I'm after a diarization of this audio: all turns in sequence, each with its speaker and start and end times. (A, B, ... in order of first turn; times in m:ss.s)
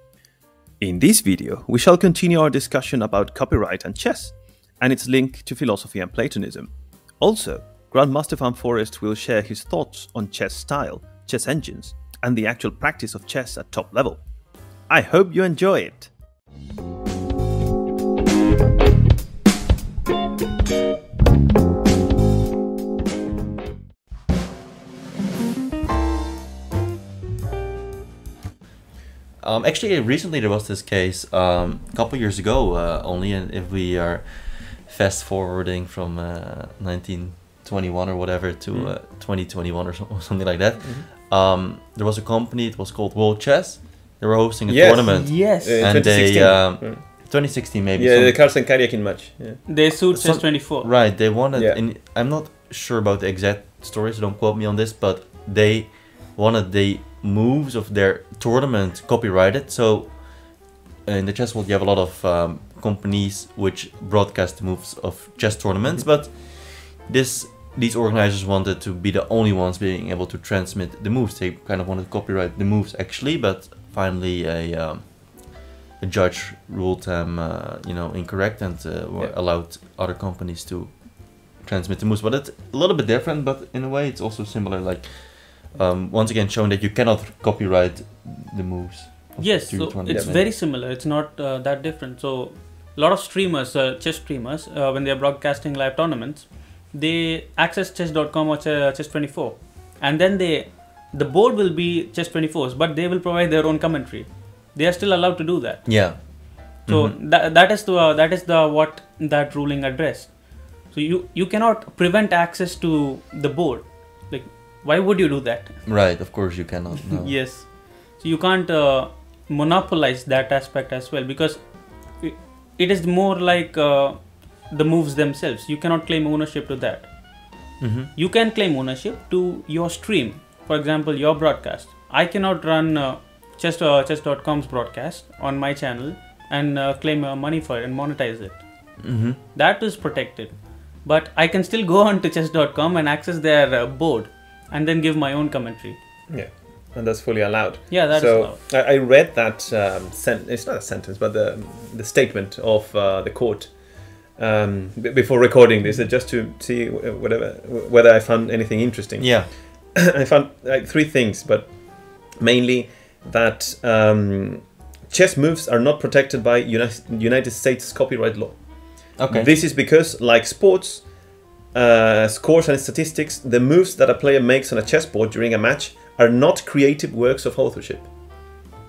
0:00.8-0:14.2 A
0:14.8-0:16.1 A
0:29.4-0:48.4 B
0:40.8-0:41.1 A
0:44.7-0:49.6 A
0:45.0-0:46.0 C
0:49.6-0:50.9 C
0:50.1-1:30.5 B
0:51.5-0:51.8 A
1:29.4-1:56.4 C
1:45.8-1:47.2 B
1:55.8-1:57.4 B
1:57.1-2:26.0 C
2:07.8-2:08.1 B
2:19.0-2:19.4 B
2:26.3-2:58.4 A
2:27.9-2:28.6 C
2:39.2-2:39.5 B
2:49.2-2:49.5 B